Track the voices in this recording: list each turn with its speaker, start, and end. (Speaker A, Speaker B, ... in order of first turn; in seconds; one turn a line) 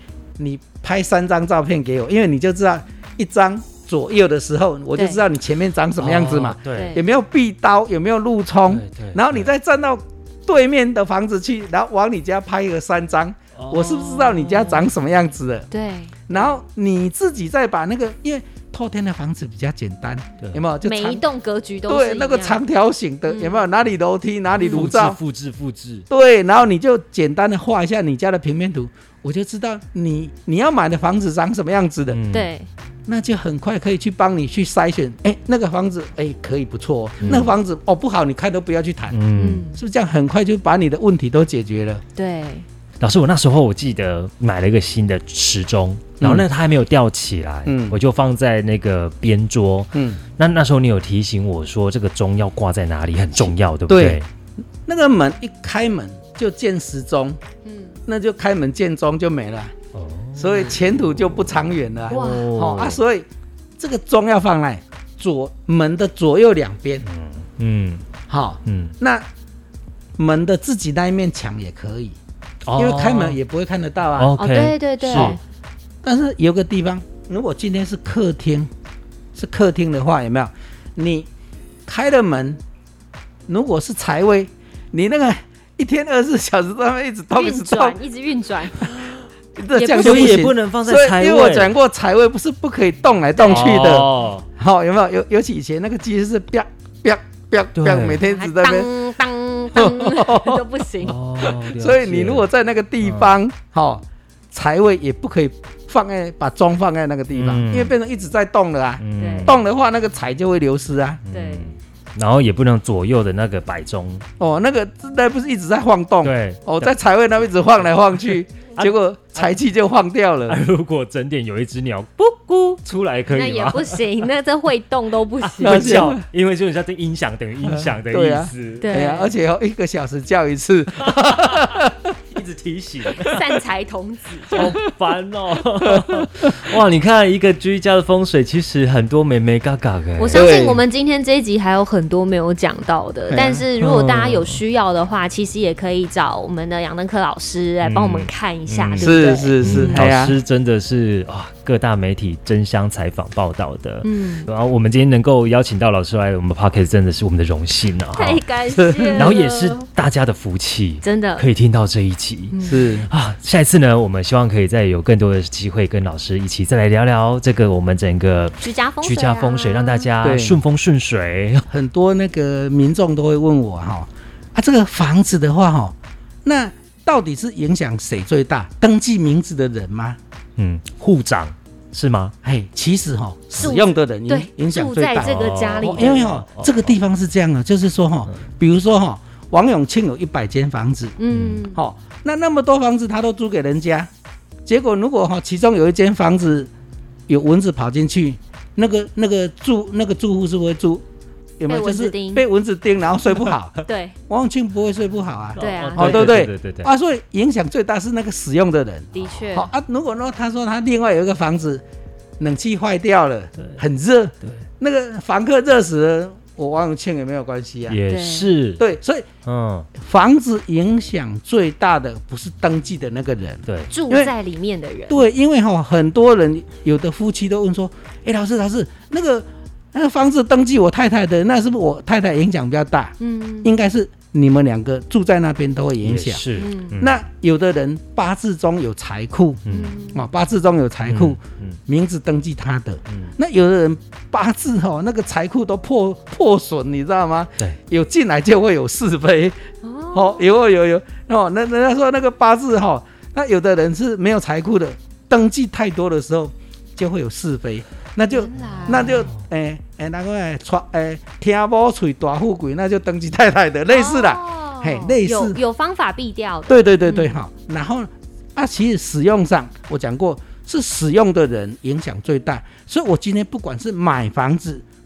Speaker A: 0.4-15.7
Speaker B: 5.0-5.2
Speaker C: 6.0-7.0
Speaker B: 6.7-7.0
Speaker C: 8.7-9.5
Speaker C: 13.6-14.9
Speaker B: 15.7-16.6
Speaker A: 16.3-21.2
Speaker B: 20.8-22.6
Speaker A: 21.9-25.2
Speaker B: 23.3-23.7
Speaker C: 24.6-26.1
Speaker B: 24.6-24.9
Speaker A: 26.1-32.2
Speaker C: 32.1-32.5
Speaker B: 32.3-32.7
Speaker A: 33.1-39.2
Speaker C: 37.2-37.5
Speaker B: 37.2-37.5
Speaker C: 39.1-39.6
Speaker B: 39.4-39.8
Speaker A: 39.7-42.0
Speaker B: 42.1-42.6
Speaker C: 43.0-54.3
Speaker A: 46.2-46.5
Speaker A: 47.6-48.0
Speaker A: 49.9-50.2
Speaker A: 53.9-54.2
Speaker A: 54.8-57.4
Speaker B: 57.6-58.0
Speaker A: 58.1-59.7
Speaker C: 59.9-60.8
Speaker A: 60.4-63.3
Speaker B: 62.1-62.5
Speaker C: 62.1-63.0
Speaker A: 63.8-67.0
Speaker C: 67.0-68.0
Speaker A: 68.3-69.2
Speaker C: 68.6-69.0
Speaker A: 70.2-72.2
Speaker C: 72.6-73.4
Speaker A: 72.8-74.3
Speaker C: 74.2-75.4
Speaker B: 74.4-75.4
Speaker A: 75.1-75.4
Speaker A: 76.0-78.7
Speaker A: 79.3-81.3
Speaker A: 81.9-82.6
Speaker A: 83.5-88.0
Speaker B: 87.3-89.0
Speaker A: 89.6-98.9
Speaker B: 89.7-90.5
Speaker C: 90.0-91.8
Speaker B: 93.4-93.9
Speaker C: 93.4-94.4
Speaker C: 97.7-98.2
Speaker B: 98.2-101.2
Speaker A: 99.7-100.6
Speaker C: 101.0-102.5
Speaker A: 101.4-111.2
Speaker C: 103.0-103.3
Speaker C: 107.3-107.9
Speaker C: 109.0-109.6
Speaker B: 109.2-109.5
Speaker C: 111.3-114.2
Speaker B: 111.3-111.7
Speaker A: 114.4-120.6
Speaker C: 116.2-116.9
Speaker C: 118.8-119.5
Speaker C: 120.5-124.2
Speaker B: 123.3-126.1
Speaker C: 125.4-129.0
Speaker A: 125.6-126.2
Speaker A: 127.7-132.1
Speaker B: 128.8-129.3
Speaker C: 131.1-131.8
Speaker C: 132.3-133.3
Speaker A: 133.2-133.5
Speaker B: 133.2-134.7
Speaker C: 134.5-140.7
Speaker A: 135.9-136.5
Speaker B: 140.2-150.1
Speaker A: 140.3-140.8
Speaker A: 143.3-143.7
Speaker C: 143.8-144.6
Speaker C: 147.8-158.4
Speaker A: 149.0-150.3
Speaker B: 154.0-154.5
Speaker B: 158.1-159.8
Speaker A: 158.8-159.3
Speaker C: 159.1-171.7
Speaker B: 161.0-161.4
Speaker B: 162.5-162.9
Speaker A: 162.7-163.1
Speaker B: 168.6-170.1
Speaker A: 170.2-170.6
Speaker A: 171.7-175.9
Speaker A: 176.4-180.2
Speaker C: 180.6-182.3
Speaker A: 182.4-191.2
Speaker B: 183.6-186.4
Speaker C: 185.2-186.9
Speaker B: 191.2-191.8
Speaker C: 191.3-191.7
Speaker A: 191.7-194.1
Speaker A: 194.7-196.7
Speaker A: 197.3-201.0
Speaker A: 201.6-211.8
Speaker B: 201.7-202.4
Speaker B: 203.8-204.2
Speaker C: 205.6-206.9
Speaker B: 205.6-206.4
Speaker B: 209.1-209.7
Speaker A: 212.4-218.0
Speaker C: 217.9-218.8
Speaker B: 218.1-218.5
Speaker A: 218.8-219.2
Speaker C: 219.4-219.9
Speaker A: 219.9-224.3
Speaker C: 223.7-223.9
Speaker B: 223.9-225.2
Speaker A: 225.1-236.4
Speaker B: 233.2-233.7
Speaker C: 236.0-237.2
Speaker B: 236.6-237.0
Speaker A: 237.0-265.6
Speaker C: 239.6-239.9
Speaker B: 239.7-240.2
Speaker C: 241.1-241.8
Speaker C: 243.1-243.3
Speaker B: 249.8-250.4
Speaker B: 258.3-259.3
Speaker C: 258.6-259.4
Speaker B: 263.9-267.3
Speaker A: 266.7-274.8